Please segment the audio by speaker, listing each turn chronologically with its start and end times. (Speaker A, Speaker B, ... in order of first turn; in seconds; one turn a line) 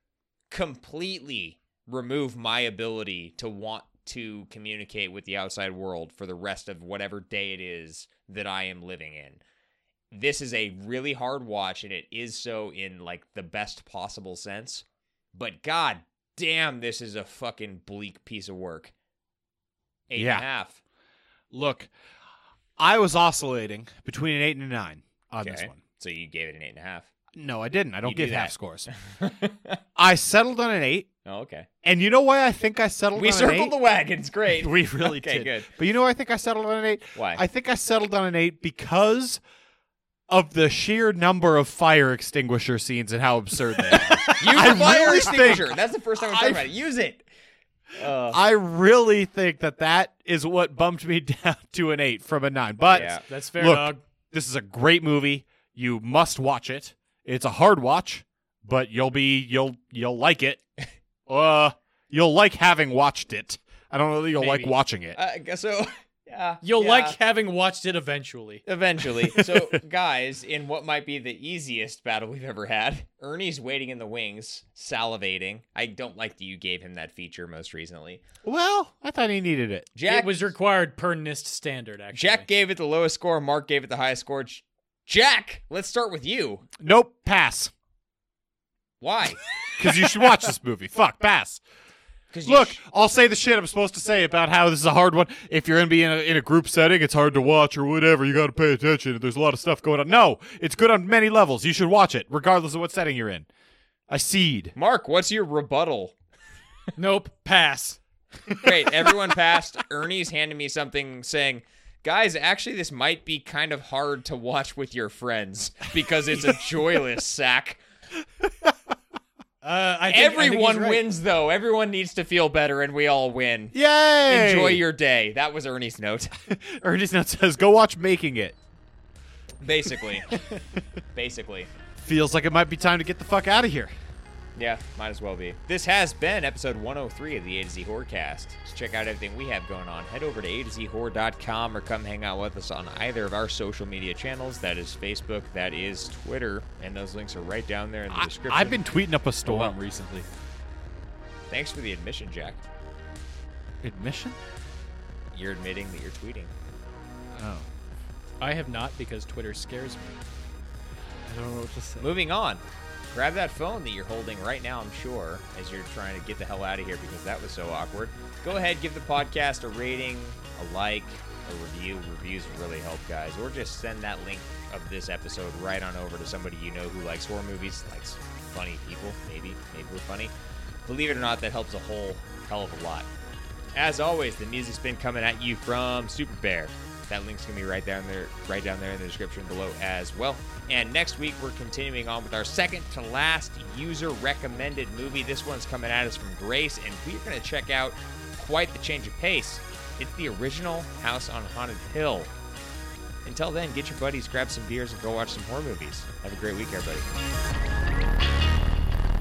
Speaker A: 0.5-9.4
Speaker A: 10.1-18.9
Speaker A: 20.1-20.8
Speaker B: 20.2-20.4
Speaker B: 21.5-21.9
Speaker B: 22.8-25.8
Speaker A: 25.4-27.1
Speaker B: 27.3-28.9
Speaker A: 28.0-29.8
Speaker B: 29.9-31.1
Speaker A: 31.2-31.7
Speaker B: 31.8-33.7
Speaker A: 33.1-35.7
Speaker B: 34.6-39.4
Speaker A: 37.1-37.4
Speaker B: 40.3-45.7
Speaker A: 43.9-47.2
Speaker B: 46.3-46.6
Speaker A: 48.0-48.4
Speaker B: 48.3-60.6
Speaker A: 52.9-53.2
Speaker C: 53.2-54.0
Speaker B: 61.3-65.2
Speaker C: 64.4-64.7
Speaker A: 65.1-67.2
Speaker C: 66.6-68.6
Speaker A: 68.7-78.2
Speaker B: 69.3-69.8
Speaker B: 78.4-79.9
Speaker A: 80.0-80.5
Speaker C: 80.1-82.5
Speaker A: 82.1-86.7
Speaker B: 86.8-87.7
Speaker A: 89.0-89.6
Speaker B: 89.8-91.6
Speaker A: 92.3-92.8
Speaker B: 92.5-103.5
Speaker B: 104.1-104.7
Speaker A: 104.8-106.1
Speaker C: 107.0-108.0
Speaker A: 108.6-117.8
Speaker B: 118.4-118.7
Speaker C: 119.6-121.0
Speaker A: 120.1-126.3
Speaker B: 123.7-124.8
Speaker B: 126.5-128.6
Speaker A: 129.6-130.4
Speaker A: 131.1-131.7
Speaker B: 132.0-133.9
Speaker A: 134.6-148.8
Speaker B: 148.1-150.3
Speaker A: 149.4-149.7
Speaker A: 151.5-152.6
Speaker B: 153.8-154.4
Speaker A: 155.3-156.5
Speaker B: 157.3-157.7
Speaker C: 158.4-160.2
Speaker B: 161.2-162.1
Speaker A: 162.0-162.6
Speaker A: 163.1-180.3
Speaker A: 180.8-183.1
Speaker A: 183.7-202.3
Speaker A: 203.2-207.1